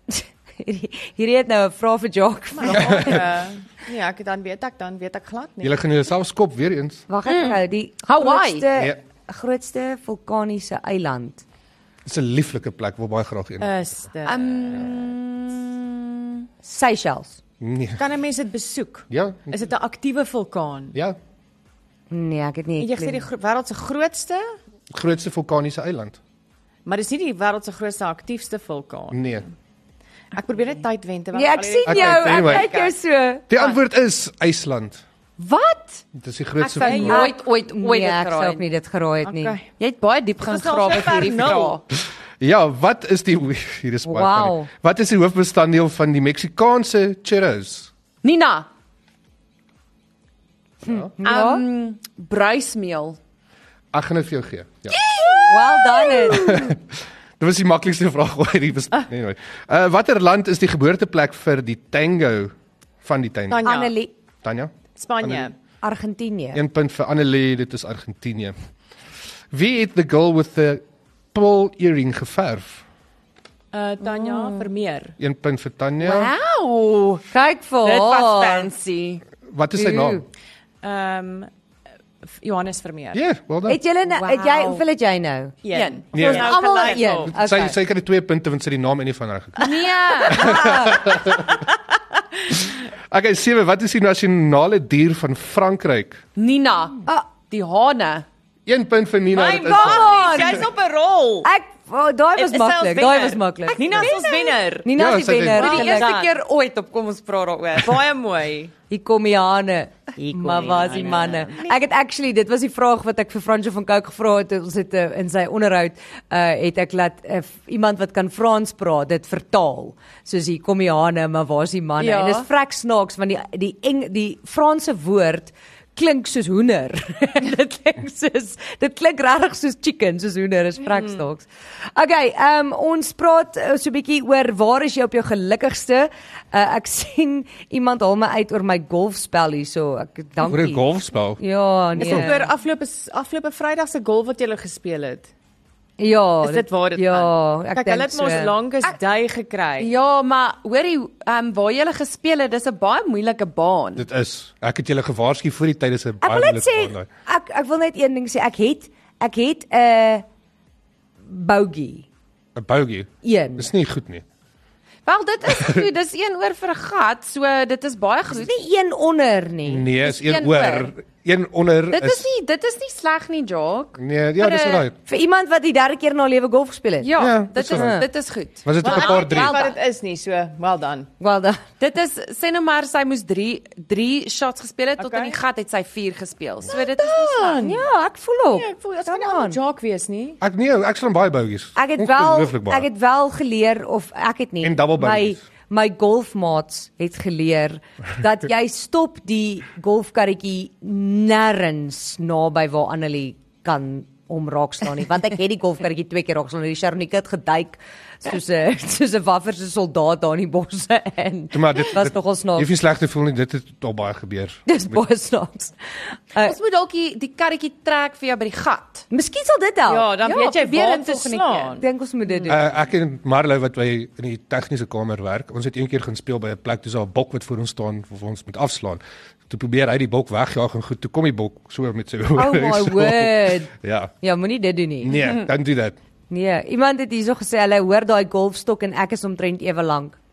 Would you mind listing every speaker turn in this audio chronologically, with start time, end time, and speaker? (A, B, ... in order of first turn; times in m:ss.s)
0:00.1-0:03.2 A
0:02.6-0:05.8 B
0:02.7-0:03.2 C
0:05.6-0:07.0 C
0:07.1-0:11.4 A
0:07.2-0:08.7 D
0:12.0-0:13.8 C
0:13.6-0:14.9 B
0:14.2-0:16.4 D
0:16.6-0:17.4 A
0:17.6-0:18.0 C
0:18.0-0:21.0 B
0:19.1-0:19.7 C
0:22.1-0:23.3 A
0:22.8-0:24.5 B
0:24.9-0:26.2 C
0:26.8-0:29.5 B
0:29.1-0:29.4 C
0:30.3-0:32.9 B
0:31.3-0:33.5 A
0:31.8-0:32.7 C
0:33.5-0:35.0 C
0:35.4-0:36.0 D
0:36.1-0:37.3 C
0:36.6-0:38.6 D
0:36.7-0:39.6 A
0:36.8-0:37.4 B
0:39.2-0:39.7 B
0:39.8-0:41.8 D
0:40.4-0:41.8 B
0:42.4-0:47.9 C
0:44.0-0:44.7 A
0:48.2-0:48.7 D
0:50.8-0:51.1 C
0:50.8-0:51.6 A
0:51.2-0:53.2 D
0:53.9-0:55.0 C
0:54.9-0:56.3 D
0:55.4-0:56.7 A
0:56.3-1:03.8 C
1:03.5-1:04.0 B
1:03.6-1:04.1 A
1:04.4-1:05.5 C
1:04.9-1:05.5 B
1:05.8-1:06.6 A
1:06.5-1:08.5 C
1:09.5-1:12.8 C
1:13.7-1:15.1 B
1:14.1-1:14.7 D
1:15.2-1:16.3 C
1:16.0-1:17.3 D
1:17.3-1:18.7 A
1:17.8-1:19.2 D
1:19.4-1:20.2 C
1:19.8-1:20.2 A
1:20.8-1:21.5 B
1:22.3-1:23.2 B
1:23.1-1:23.8 C
1:23.7-1:25.5 A
1:24.1-1:24.8 D
1:25.6-1:27.3 B
1:25.7-1:27.0 D
1:26.1-1:26.5 C
1:26.1-1:27.8 A
1:27.2-1:31.6 C
1:29.6-1:30.6 D
1:30.3-1:31.0 A
1:33.1-1:36.2 C
1:36.4-1:38.2 D
1:38.6-1:40.6 C
1:39.3-1:41.5 B
1:39.6-1:40.6 D
1:40.1-1:40.5 A
1:41.4-1:44.2 A
1:42.4-1:44.9 B
1:43.7-1:44.6 D
1:44.8-1:46.3 A
1:44.9-1:45.8 C
1:45.5-1:48.0 D
1:45.6-1:46.3 B
1:47.8-1:48.7 B
1:48.9-2:20.8 A
1:50.3-1:51.8 B
1:51.0-1:51.3 D
2:02.0-2:02.5 D
2:20.4-2:21.4 C
2:21.4-2:22.4 A
2:22.0-2:22.3 C
2:22.0-2:25.3 B
2:26.0-2:28.6 A
2:26.4-2:29.9 B
2:29.8-2:34.0 D
2:34.0-2:37.1 C
2:36.2-2:40.2 A
2:41.3-2:42.0 A
2:42.5-2:44.2 C
2:43.2-2:43.7 A
2:45.0-2:48.6 D
2:45.6-2:45.8 C
2:48.4-2:49.9 A
2:49.6-2:52.2 C
2:50.0-2:50.9 D
2:51.9-2:54.9 D
2:54.0-2:54.9 C
2:55.0-2:58.1 A
2:57.0-2:59.8 D
2:57.2-2:58.0 C
2:58.6-2:59.7 C
2:58.8-3:01.1 B
3:01.2-3:01.6 A
3:01.8-3:07.6 D
3:05.0-3:05.4 B
3:06.7-3:07.8 B
3:07.6-3:09.6 A
3:08.5-3:10.4 B
3:10.4-3:12.9 C
3:11.8-3:32.7 A
3:14.6-3:15.4 C
3:31.5-3:35.0 C
3:34.7-3:36.6 A
3:36.4-3:39.0 D
3:39.1-3:40.1 A
3:39.9-3:42.5 B
3:40.2-3:41.7 D
3:41.8-3:42.8 A
3:42.5-3:54.1 C
3:52.3-3:55.1 A
3:55.0-3:55.9 C
3:56.3-4:00.2 A